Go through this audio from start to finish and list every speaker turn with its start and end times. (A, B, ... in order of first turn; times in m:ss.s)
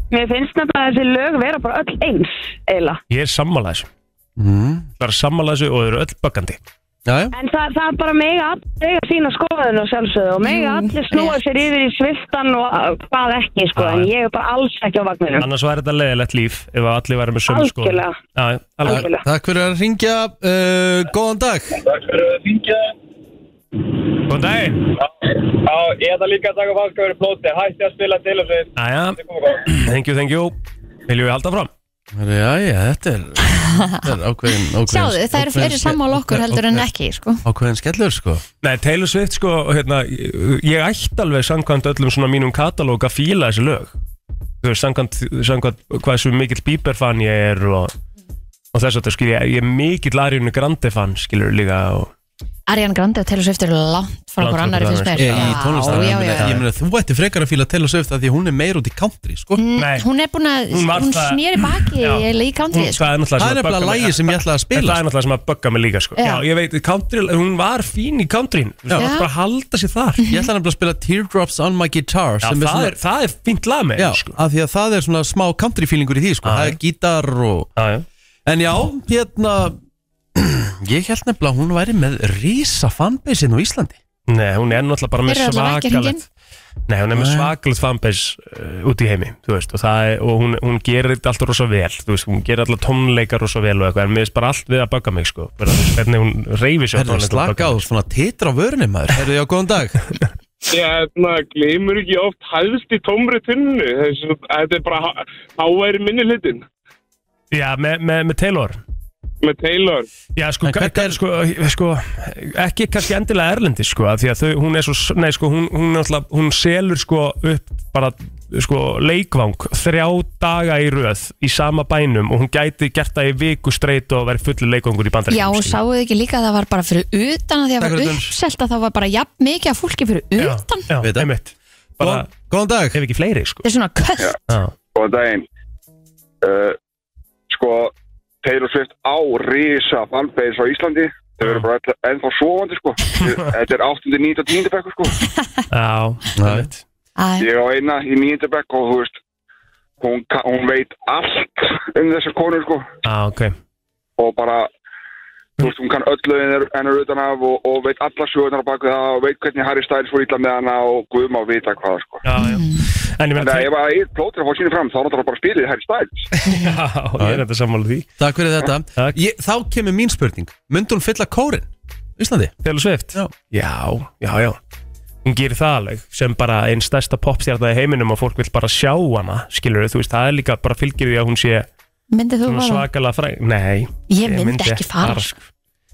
0:00.1-0:03.0 A
0:03.1-0:03.9 B
0:04.4-0:04.9 C
0:05.0-0:06.6 B
0:07.1-0:07.3 C
0:07.3-0:15.5 A
0:10.4-0:11.4 D
0:13.8-0:14.1 B
0:15.4-0:19.0 B
0:17.5-0:18.2 A
0:18.9-0:19.2 A
0:18.9-0:21.8 C
0:21.8-0:22.9 E
0:24.3-0:24.9 B
0:25.0-0:29.7 E
0:28.8-0:30.6 B
0:31.1-0:31.7 B
0:32.1-0:36.9 C
0:33.5-0:34.0 D
0:34.8-0:37.4 D
0:37.4-0:38.4 C
0:38.6-0:43.9 B
0:44.6-0:47.9 B
0:48.7-0:52.1 B
0:52.7-0:56.5 D
0:54.4-0:56.6 B
0:55.2-0:59.6 C
0:59.6-1:03.0 D
0:59.8-1:00.1 B
1:00.7-1:10.2 B
1:03.4-1:05.0 C
1:06.2-1:06.4 D
1:09.0-1:09.3 D
1:10.2-1:10.5 D
1:10.3-1:13.0 C
1:12.4-1:14.4 B
1:14.0-1:17.7 C
1:16.4-1:16.8 B
1:17.8-1:18.1 B
1:18.5-1:19.8 C
1:20.4-1:24.0 C
1:24.3-1:26.2 B
1:25.3-1:26.2 D
1:26.9-1:37.8 B
1:27.1-1:27.5 C
1:37.0-1:40.0 C
1:40.7-1:46.7 F
1:47.5-1:48.8 B
1:49.4-1:50.1 F
1:50.4-2:05.8 B
1:50.6-1:51.2 C
2:05.3-2:10.9 D
2:07.8-2:08.3 C
2:10.4-2:12.3 B
2:11.0-2:11.3 C
2:12.0-2:13.0 C
2:12.9-2:13.6 B
2:13.6-2:14.3 D
2:15.0-2:15.5 G
2:16.4-2:16.8 G
2:17.5-2:25.2 G
2:25.7-2:26.8 B
2:26.4-2:26.7 C
2:27.2-2:27.5 D
2:27.4-2:29.2 G
2:30.0-2:32.8 G
2:33.0-2:33.5 B
2:34.2-2:34.7 G
2:35.6-2:42.2 G
2:42.2-2:43.7 B
2:42.4-2:42.9 D
2:43.4-2:46.3 G
2:46.4-2:48.1 B
2:47.2-2:47.4 C
2:48.2-2:52.5 C
2:52.6-2:54.6 B
2:55.2-3:01.7 B
3:02.1-3:02.9 D
3:02.4-3:05.4 B
3:04.1-3:05.4 D